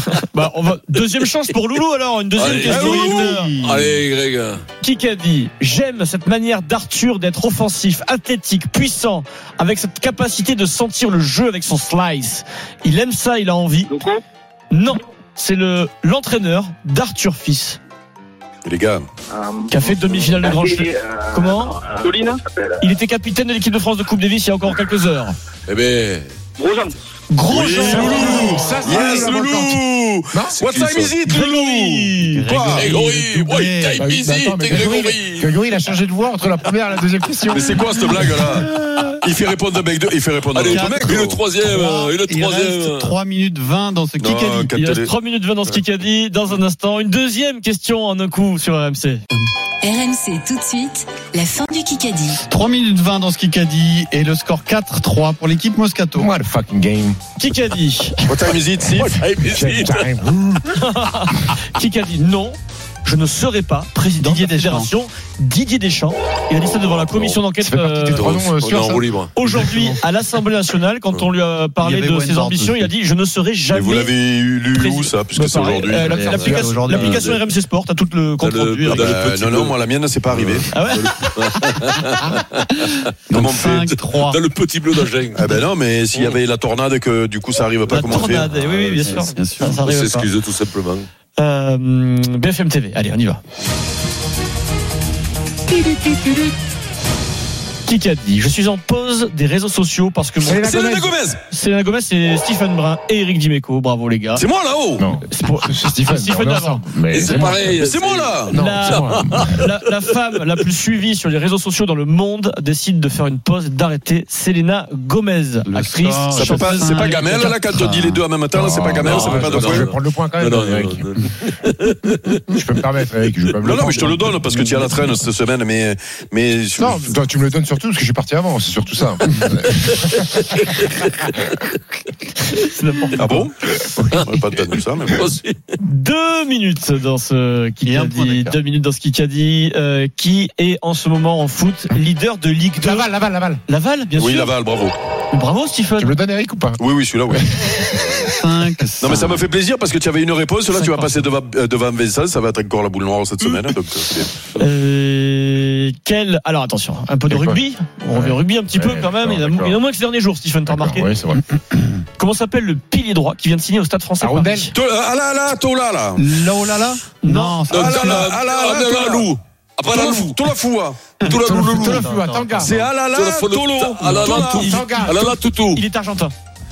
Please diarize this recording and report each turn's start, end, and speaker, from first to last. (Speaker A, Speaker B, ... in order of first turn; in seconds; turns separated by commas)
Speaker A: 0.2-3.5, Speaker B: 2.4-4.6, Speaker C: 2.5-4.0, Speaker A: 4.8-14.0, Speaker D: 13.9-14.2, Speaker A: 14.7-17.8, Speaker E: 18.6-19.1, Speaker D: 19.3-22.7, Speaker A: 19.7-21.8, Speaker A: 22.8-25.4, Speaker B: 25.7-26.3, Speaker D: 26.6-26.9, Speaker A: 27.3-28.7, Speaker E: 27.5-33.0, Speaker F: 27.7-30.6, Speaker B: 30.6-31.1, Speaker A: 31.2-32.9, Speaker C: 32.2-34.1, Speaker B: 32.7-35.5, Speaker F: 34.0-39.0, Speaker E: 37.5-38.7, Speaker E: 39.2-41.4, Speaker B: 40.5-43.1, Speaker C: 40.6-44.7, Speaker E: 44.2-45.1, Speaker A: 44.7-49.2, Speaker G: 49.8-52.4, Speaker C: 52.5-56.3, Speaker F: 56.2-57.2, Speaker A: 57.4-58.4, Speaker E: 58.2-59.0, Speaker F: 58.8-60.7, Speaker B: 58.9-60.2, Speaker A: 60.7-68.4, Speaker C: 64.2-64.9, Speaker B: 66.6-67.4, Speaker F: 67.6-69.1, Speaker B: 68.1-69.4, Speaker A: 69.3-74.1, Speaker C: 69.5-70.0, Speaker C: 71.8-72.9, Speaker E: 73.7-76.2, Speaker A: 74.7-79.1, Speaker C: 75.8-77.3, Speaker B: 76.3-77.3, Speaker F: 76.4-76.7, Speaker B: 78.4-83.1, Speaker E: 78.9-80.7, Speaker A: 80.7-81.3, Speaker C: 83.3-84.4, Speaker E: 83.3-83.7, Speaker B: 83.6-85.5, Speaker E: 85.3-88.5, Speaker B: 86.1-86.4, Speaker A: 87.9-90.3, Speaker B: 87.9-89.1, Speaker C: 89.0-89.8, Speaker B: 89.8-91.1, Speaker A: 91.4-93.4, Speaker F: 95.7-96.2, Speaker A: 97.8-100.8, Speaker F: 100.4-101.2, Speaker E: 100.6-101.4, Speaker A: 101.5-104.4, Speaker E: 104.3-105.0, Speaker F: 105.0-107.8, Speaker A: 105.3-106.8, Speaker B: 107.1-109.7, Speaker E: 107.8-108.6, Speaker F: 108.5-109.6, Speaker A: 108.5-117.5, Speaker C: 115.7-118.2, Speaker E: 116.3-119.8, Speaker F: 118.5-121.1, Speaker B: 119.0-122.4, Speaker F: 122.5-125.2, Speaker E: 123.6-127.1, Speaker F: 126.8-130.4, Speaker B: 130.4-131.5, Speaker A: 132.5-133.5, Speaker E: 133.2-133.5, Speaker F: 133.9-134.2, Speaker E: 134.1-135.2, Speaker B: 135.1-135.6, Speaker A: 135.8-143.1, Speaker C: 137.8-138.6, Speaker F: 142.7-143.6, Speaker A: 143.7-144.6, Speaker E: 144.2-144.9, Speaker A: 145.3-146.2, Speaker F: 146.0-148.2, Speaker E: 146.8-147.9, Speaker C: 148.1-149.5, Speaker E: 149.0-154.4, Speaker A: 150.7-151.2, Speaker A: 154.5-161.1, Speaker F: 157.2-159.8, Speaker F: 160.7-161.4, Speaker A: 162.2-164.7, Speaker F: 164.2-164.7, Speaker E: 164.7-166.2, Speaker C: 166.2-168.4, Speaker A: 167.2-167.6, Speaker B: 167.7-170.4, Speaker E: 167.8-169.3, Speaker E: 169.9-171.1, Speaker B: 171.2-172.1, Speaker C: 171.2-172.9, Speaker F: 171.4-172.8, Speaker E: 172.6-174.7, Speaker B: 173.1-175.8, Speaker A: 174.2-175.2, Speaker F: 174.2-175.3, Speaker A: 175.7-176.3